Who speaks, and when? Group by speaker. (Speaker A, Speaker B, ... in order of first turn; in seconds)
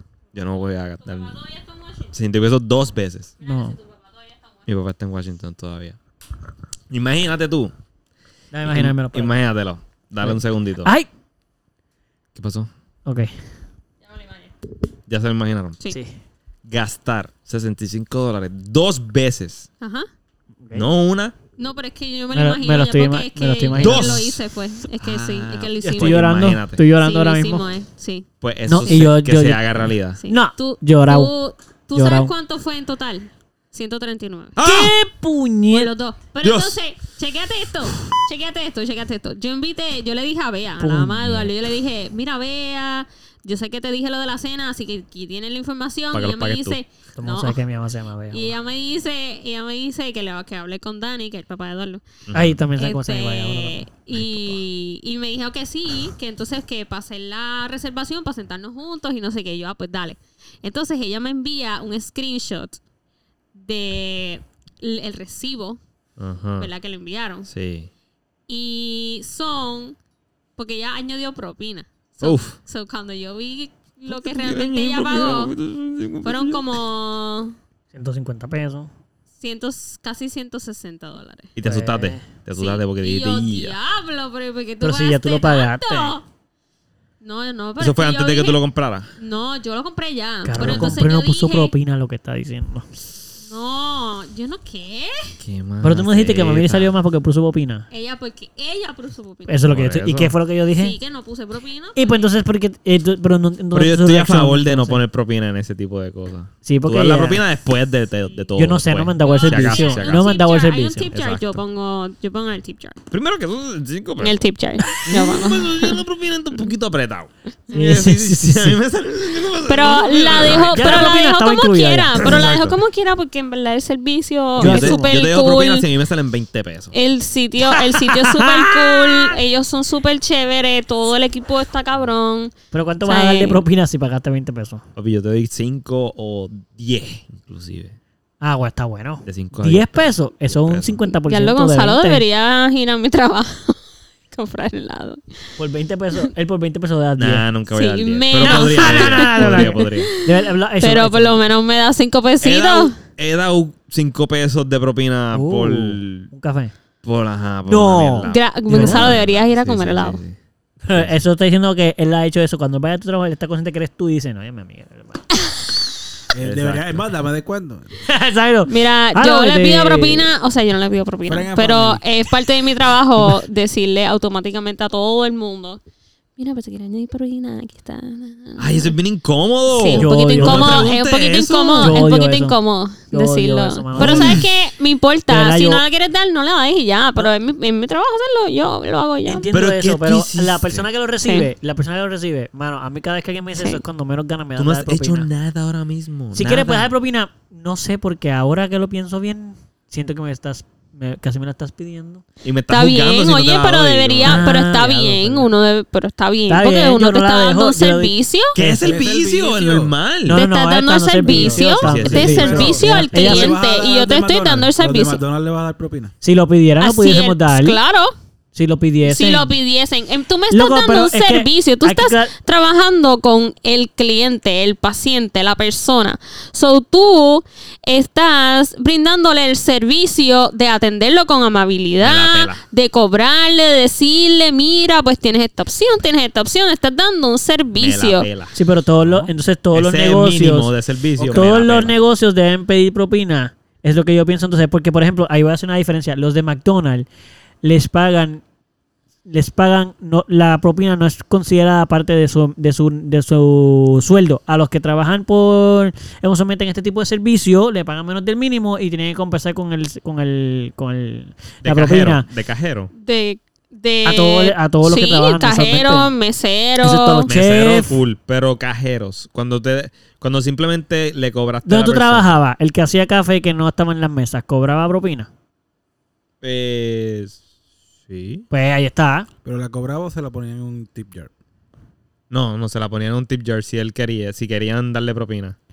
Speaker A: 0.3-1.4, 2.1-3.4, 4.7-6.0, 6.9-7.7, 8.7-10.9, 12.3-12.7, 15.1-15.8, 16.7-19.7, 20.7-21.4, 23.8-24.4, 25.0-26.8, 28.4-30.2, 34.6-35.0, 36.4-36.8, 46.1-46.8, 52.3-52.6, 66.2-66.7, 67.5-67.9, 72.2-72.6, 74.1-76.7, 81.6-83.8, 87.8-89.1, 90.6-90.9, 95.4-96.9, 99.7-100.3, 103.7-110.3, 111.1-111.6, 113.1-114.3, 114.9-121.1, 122.2-122.8, 124.6-127.0, 134.9-138.0, 139.3-141.0, 147.2-150.1, 152.4-156.3, 157.0-160.4, 160.9-161.2, 166.4-167.1, 178.6-182.0, 184.0-184.4, 189.5-190.9, 194.6-196.9, 202.4-204.5, 208.6-210.4, 211.7-212.8, 232.0-232.6, 237.8-241.9, 261.6-262.9, 267.3-272.4, 276.4-277.4, 278.1-278.4, 282.3-285.6
Speaker B: 1.0-2.1, 3.4-4.5, 14.1-14.5, 19.8-20.1, 21.6-26.2, 27.0-28.3, 28.8-29.1, 30.2-34.6, 35.7-47.6, 48.3-52.0, 52.8-62.8, 63.5-65.8, 66.6-67.5, 68.5-70.0, 70.6-75.5, 76.2-77.6, 79.4-81.5, 82.5-86.2, 87.2-88.6, 89.2-91.7, 93.5-95.3, 97.9-99.6, 100.8-102.2, 109.2-113.0, 114.2-116.0, 119.7-125.8, 126.9-132.5, 133.0-133.6, 141.3-143.8, 144.3-145.2, 147.7-152.9, 158.2-160.2, 168.7-175.8, 176.4-178.9, 179.7-189.5, 193.6-193.8, 202.7-208.6, 210.3-215.2, 216.8-218.1, 219.1-238.3, 263.0-267.3
Speaker C: 3.4-3.8, 8.5-9.4, 10.2-11.1, 13.1-13.4, 22.3-24.4, 25.8-27.7, 28.7-31.3, 31.9-32.3, 34.6-35.9, 40.8-41.5, 47.2-48.5, 52.3-54.5, 77.9-78.9, 81.6-82.3, 84.8-86.2, 90.5-92.9, 95.8-97.8, 99.5-101.0, 102.0-105.0, 106.7-107.4, 108.6-111.1, 117.7-118.8, 120.4-122.5, 124.6-125.2, 127.7-129.3, 132.7-134.8, 138.4-142.2, 145.6-147.5, 148.4-151.4, 155.3-156.7, 157.7-159.2, 160.8-165.2, 168.1-170.3, 179.9-180.9, 181.8-182.6, 183.1-184.5, 185.3-185.8, 189.3-195.3, 196.3-202.2, 204.2-205.5, 206.5-208.8, 210.3-213.6, 216.2-217.8, 218.5-219.5, 220.5-222.3, 238.6-240.7, 241.3-247.1, 247.6-248.4, 249.3-262.2, 264.1-266.1, 266.8-268.0, 271.6-275.3, 278.5-279.3
Speaker D: 166.3-168.0, 171.3-172.0, 208.7-209.9, 211.3-211.6, 212.1-216.2, 241.2-241.5, 279.4-281.3